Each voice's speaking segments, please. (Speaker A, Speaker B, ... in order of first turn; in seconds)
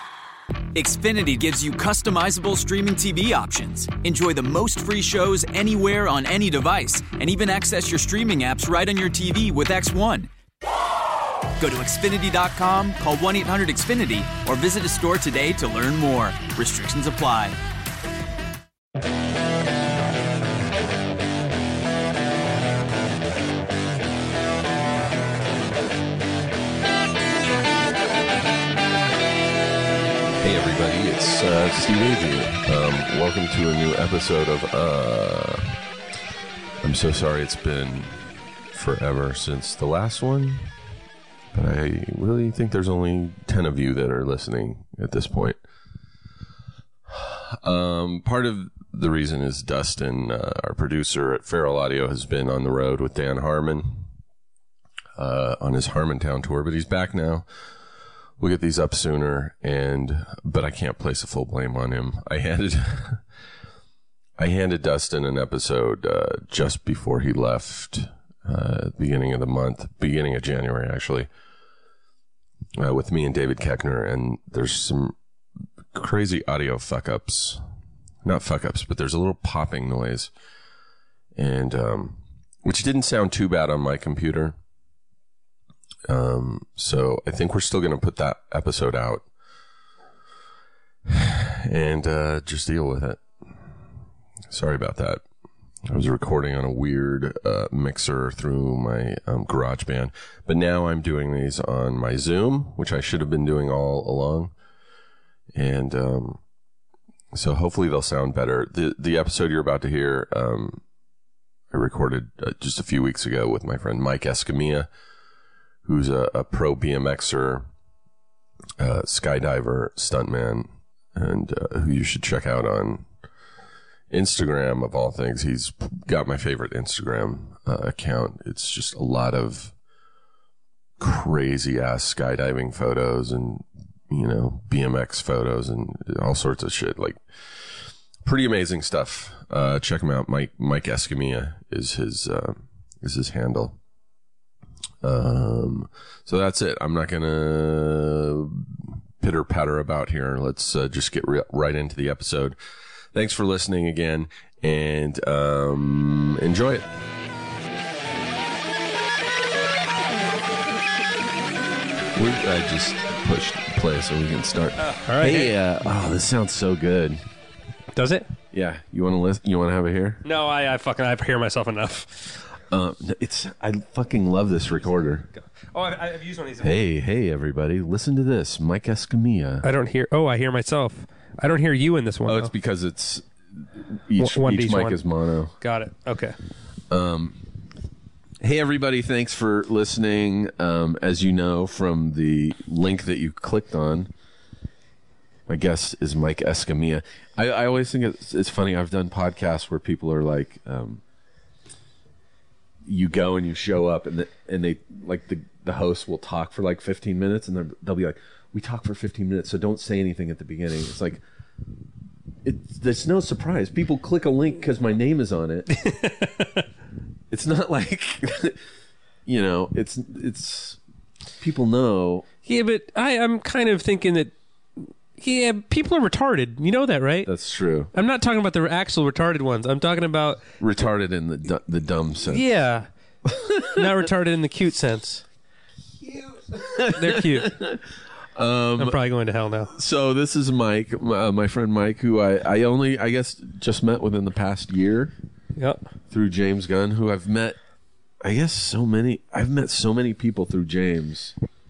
Speaker A: 0.7-10.3, 11.6-17.6
Speaker B: 30.4-35.8, 36.8-38.1, 38.7-40.7, 41.5-45.6, 47.1-54.0, 55.2-57.5, 58.4-63.2, 64.4-71.3, 72.8-75.2, 75.9-77.6, 78.2-80.3, 81.3-84.6, 86.1-89.2, 91.1-93.2, 94.5-95.2, 95.9-104.5, 105.5-106.4, 107.3-110.8, 111.7-114.9, 115.8-117.7, 118.8-123.1, 124.1-129.7, 131.0-137.2, 138.2-143.8, 145.0-152.6, 153.1-156.9, 162.1-167.2, 168.5-170.2, 172.7-175.3, 176.6-179.7, 182.3-185.5, 186.9-187.4, 188.4-194.1, 195.5-201.0, 202.9-211.2, 212.4-215.7, 217.3-218.6, 219.3-220.8, 221.4-222.3, 227.2-227.9, 230.6-232.4, 233.3-233.9, 236.2-237.8, 238.4-239.0, 239.7-245.1, 246.1-247.6, 248.2-251.3
Speaker C: 164.8-165.6, 167.9-168.3, 170.2-172.4, 175.5-176.8, 179.6-182.5, 184.2-185.0, 185.6-186.3, 215.7-216.6, 222.4-227.3, 227.9-230.4, 232.3-232.9, 233.7-235.2, 236.9-237.5, 238.8-239.7, 245.6-245.8